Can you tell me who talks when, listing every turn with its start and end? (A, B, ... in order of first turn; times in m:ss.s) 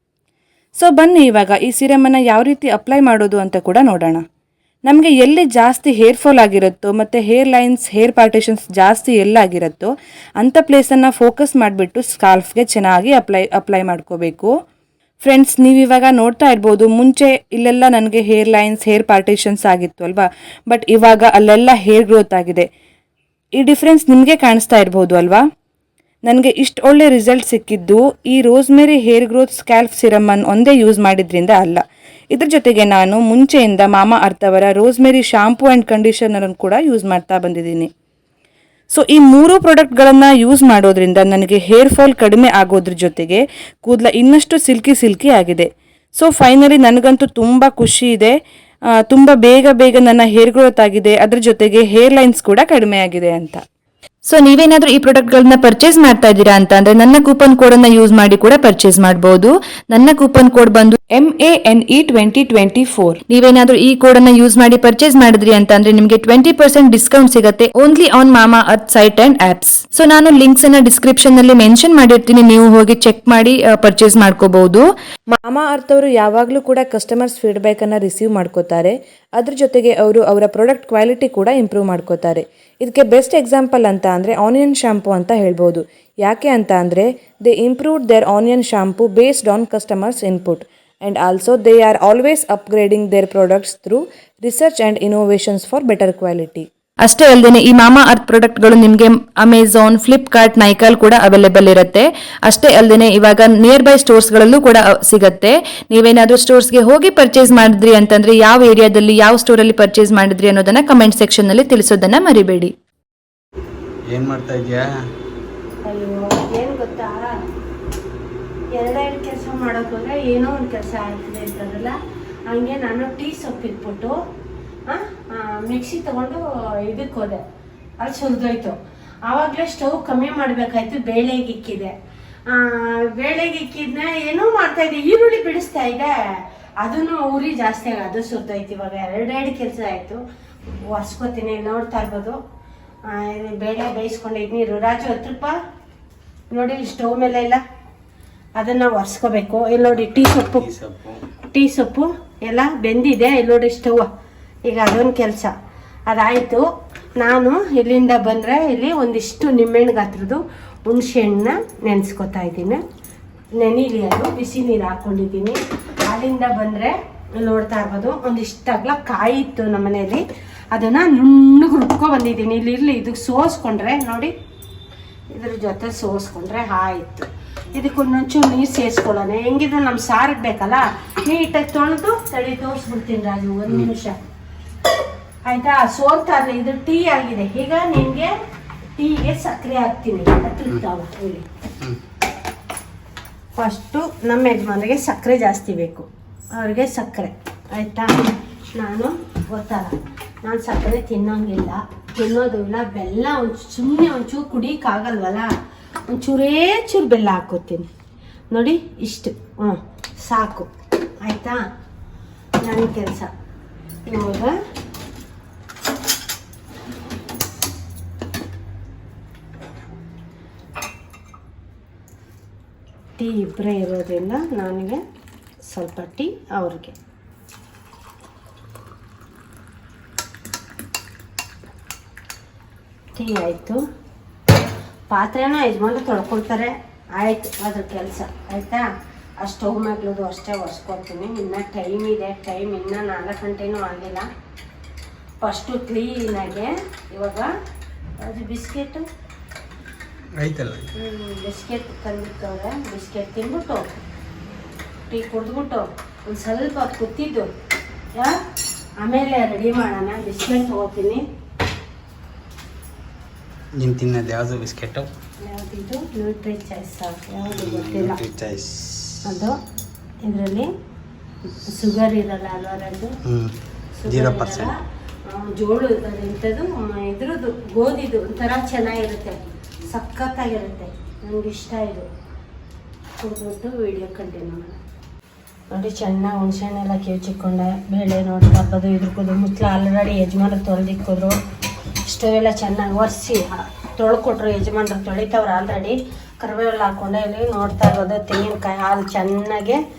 0:00.8-0:04.2 A
0:04.8-0:14.5 A
0:15.2-0:22.7 A
0:23.6-0:25.4 A
0:26.2-0:37.9 A
0:38.9-0:48.3 A
0:49.1-0:53.6 A
0:54.2-1:52.7 A
1:54.1-1:54.9 B
1:55.8-1:57.4 C
1:58.7-2:02.0 C
2:02.5-2:04.1 C
2:04.9-2:07.4 C
2:08.0-2:11.9 C
2:12.5-2:20.2 C
2:20.9-2:22.4 C
2:23.1-2:25.6 C
2:26.5-2:27.6 C
2:28.6-2:30.7 C
2:29.9-2:31.2 B
2:31.5-2:34.1 C
2:34.6-2:35.5 C
2:36.1-2:36.6 C
2:37.2-2:42.8 C
2:43.6-2:54.3 C
2:55.3-3:04.2 C
3:05.4-3:08.3 C
3:09.0-3:11.4 C
3:13.6-3:25.5 C
3:26.1-3:27.9 C
3:28.5-3:30.7 C
3:31.2-3:31.6 C
3:32.6-3:33.3 C
3:34.0-3:34.5 C
3:43.2-3:45.0 C
3:45.6-3:46.9 C
3:53.2-3:53.8 C
3:55.1-3:58.8 C
3:59.4-4:04.3 C
4:05.4-4:07.5 C
4:08.2-4:09.0 C
4:10.3-4:10.9 B
4:11.0-4:13.9 C
4:15.1-4:17.5 C
4:19.0-4:21.2 C
4:23.8-4:25.1 B
4:25.4-4:28.2 C
4:27.5-4:29.2 B
4:29.2-4:29.6 C
4:30.2-4:30.7 C
4:31.7-4:33.1 C
4:33.2-4:33.5 B
4:34.0-4:34.7 C
4:34.0-4:34.7 B
4:35.3-4:42.0 C
4:43.2-4:44.8 C
4:45.7-4:51.4 C
4:52.0-4:59.8 C